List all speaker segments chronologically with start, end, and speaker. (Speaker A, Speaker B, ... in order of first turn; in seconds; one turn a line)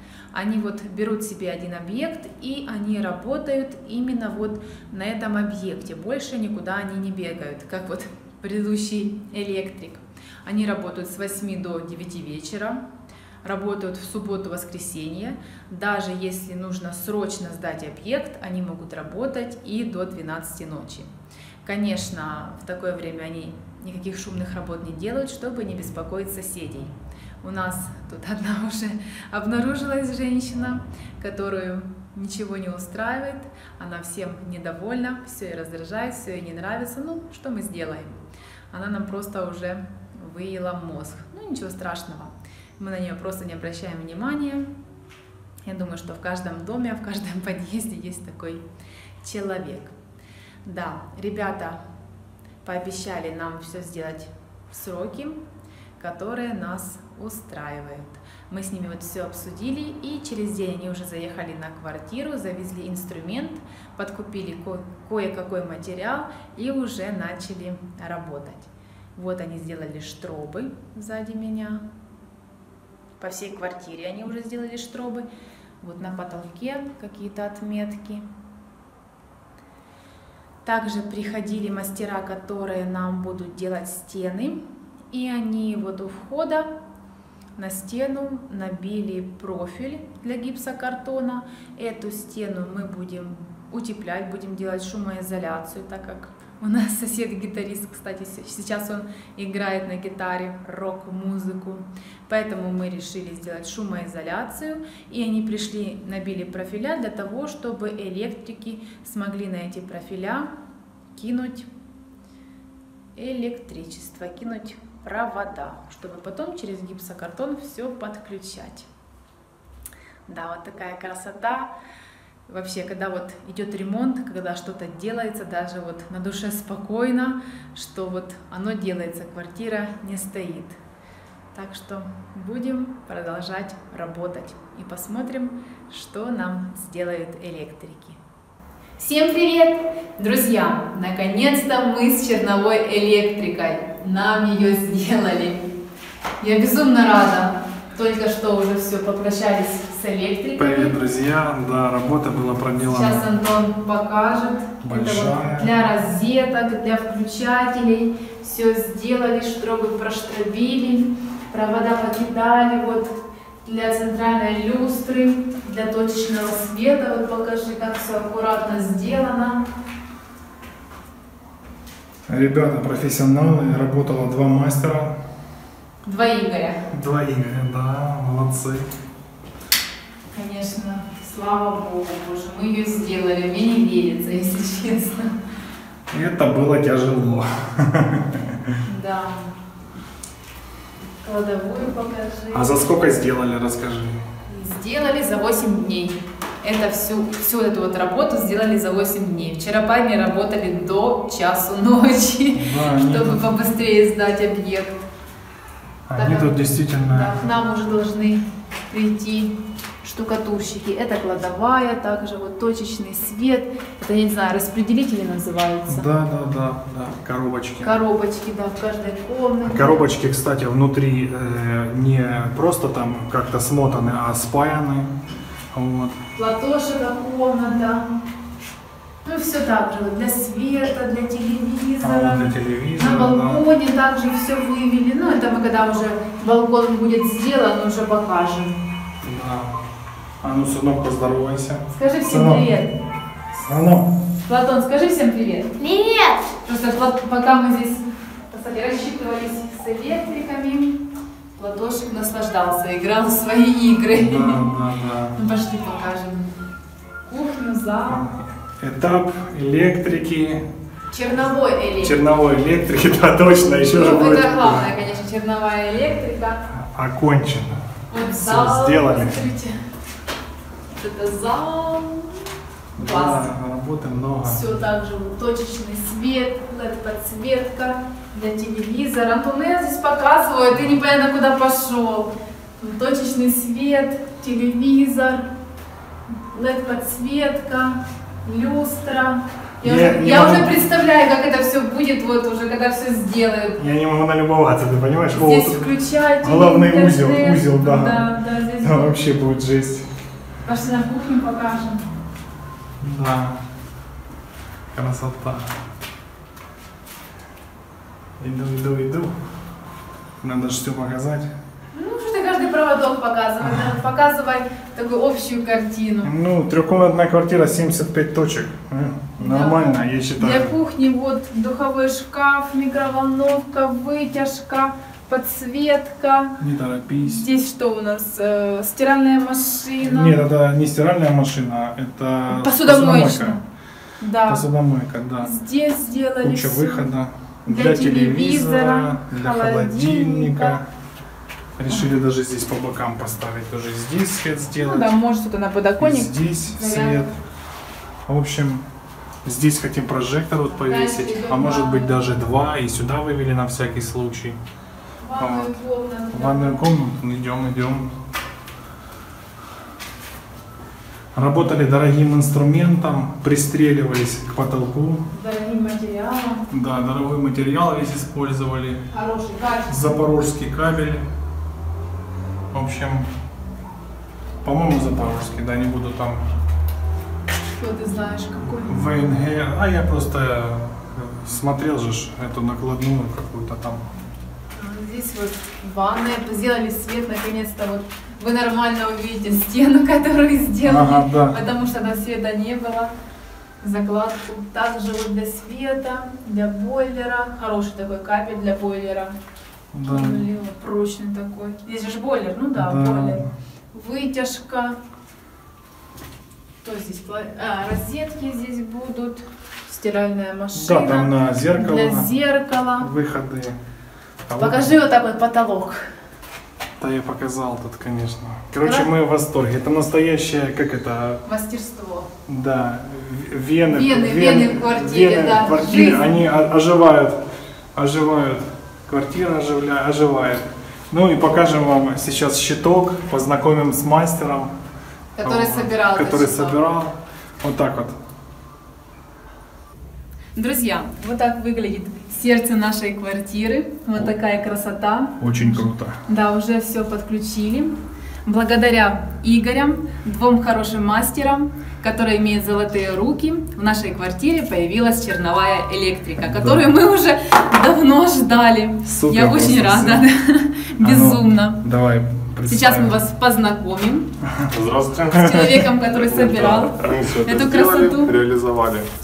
Speaker A: 0.3-12.8
Speaker A: 13.4-21.1
Speaker A: 21.6-38.2
Speaker A: 38.7-44.7
Speaker A: 45.6-48.6
Speaker A: 49.2-49.9
Speaker A: 50.6-51.8
Speaker A: 52.6-55.4
Speaker A: 56.0-71.8
Speaker A: 73.2-75.2
Speaker A: 75.8-78.2
Speaker A: 80.6-86.7
Speaker A: 87.6-110.5
Speaker A: 111.1-111.7
Speaker A: 113.2-118.9
Speaker A: 120.3-121.7
Speaker A: 122.5-130.8
Speaker A: 131.5-138.2
Speaker A: 139.0-145.7
Speaker A: 146.4-150.9
Speaker B: 150.6-153.3
Speaker A: 152.8-169.6
Speaker B: 154.8-155.7
Speaker B: 172.3-175.2
Speaker A: 176.0-176.8
Speaker B: 176.9-178.8
Speaker A: 180.3-185.3
Speaker B: 186.1-188.8
Speaker A: 188.8-189.5
Speaker A: 191.2-192.7
Speaker B: 192.5-194.2
Speaker A: 194.5-205.0
Speaker B: 202.5-203.4
Speaker B: 206.1-207.3
Speaker A: 206.1-216.1
Speaker B: 215.9-217.9
Speaker A: 217.8-220.1
Speaker B: 219.6-225.1
Speaker B: 225.7-226.2
Speaker A: 226.3-228.1
Speaker A: 229.2-238.8
Speaker B: 232.0-233.6
Speaker B: 239.2-239.7
Speaker B: 240.4-242.6
Speaker A: 241.9-242.9
Speaker B: 243.5-244.1
Speaker A: 244.4-251.0
Speaker A: 251.6-254.7
Speaker B: 254.1-255.3
Speaker A: 255.3-256.5
Speaker A: 257.3-258.2
Speaker B: 258.1-260.6
Speaker A: 261.1-262.2
Speaker B: 262.0-264.8
Speaker A: 263.9-266.6
Speaker B: 266.7-269.4
Speaker A: 268.1-269.8
Speaker A: 271.0-272.4
Speaker A: 272.9-273.4
Speaker B: 272.9-274.6
Speaker A: 274.4-285.5
Speaker A: 286.5-293.8
Speaker B: 289.8-290.7
Speaker B: 293.8-295.8
Speaker A: 295.3-299.2
Speaker B: 296.4-298.2
Speaker B: 298.8-300.1
Speaker A: 300.6-302.0
Speaker B: 303.0-303.6
Speaker B: 304.9-305.7
Speaker B: 308.4-309.3
Speaker B: 310.4-311.5
Speaker A: 311.9-316.3
Speaker B: 316.2-320.7
Speaker A: 319.4-326.6
Speaker B: 326.6-327.5
Speaker A: 327.1-330.4
Speaker B: 330.0-333.6
Speaker A: 332.5-333.6
Speaker A: 334.2-334.6
Speaker B: 334.4-335.5
Speaker A: 335.4-337.1
Speaker B: 336.4-340.9
Speaker A: 337.6-340.8
Speaker B: 341.8-345.1
Speaker A: 344.8-347.3
Speaker B: 346.0-347.3
Speaker B: 348.3-348.9
Speaker B: 349.4-354.6
Speaker A: 350.8-352.3
Speaker A: 355.2-356.8
Speaker B: 355.4-355.7
Speaker B: 356.3-358.1
Speaker B: 361.3-365.2
Speaker A: 365.3-366.6
Speaker B: 366.7-369.0
Speaker A: 369.1-370.2
Speaker B: 369.9-371.2
Speaker B: 372.7-373.3
Speaker B: 374.6-376.4
Speaker A: 377.8-379.0
Speaker B: 378.8-384.1
Speaker A: 384.7-393.1
Speaker B: 390.8-391.6
Speaker A: 393.8-399.3
Speaker B: 399.9-400.4
Speaker A: 400.1-405.0
Speaker B: 402.8-403.5
Speaker A: 406.8-413.1
Speaker B: 410.7-412.3
Speaker B: 413.0-413.8
Speaker B: 414.5-414.9
Speaker A: 414.6-416.1
Speaker B: 417.0-421.4
Speaker A: 418.8-419.1
Speaker A: 421.4-422.3
Speaker B: 422.5-427.4
Speaker A: 423.9-426.4
Speaker B: 427.9-434.7
Speaker A: 435.4-436.8
Speaker B: 435.4-438.1
Speaker A: 440.5-447.9
Speaker B: 445.4-446.2
Speaker A: 448.4-461.8
Speaker B: 456.4-456.9
Speaker B: 459.1-460.2
Speaker B: 461.0-463.2
Speaker A: 462.6-464.3
Speaker B: 464.4-464.7
Speaker C: 464.7-465.5
Speaker A: 465.3-468.3
Speaker B: 465.4-465.9
Speaker C: 466.1-469.1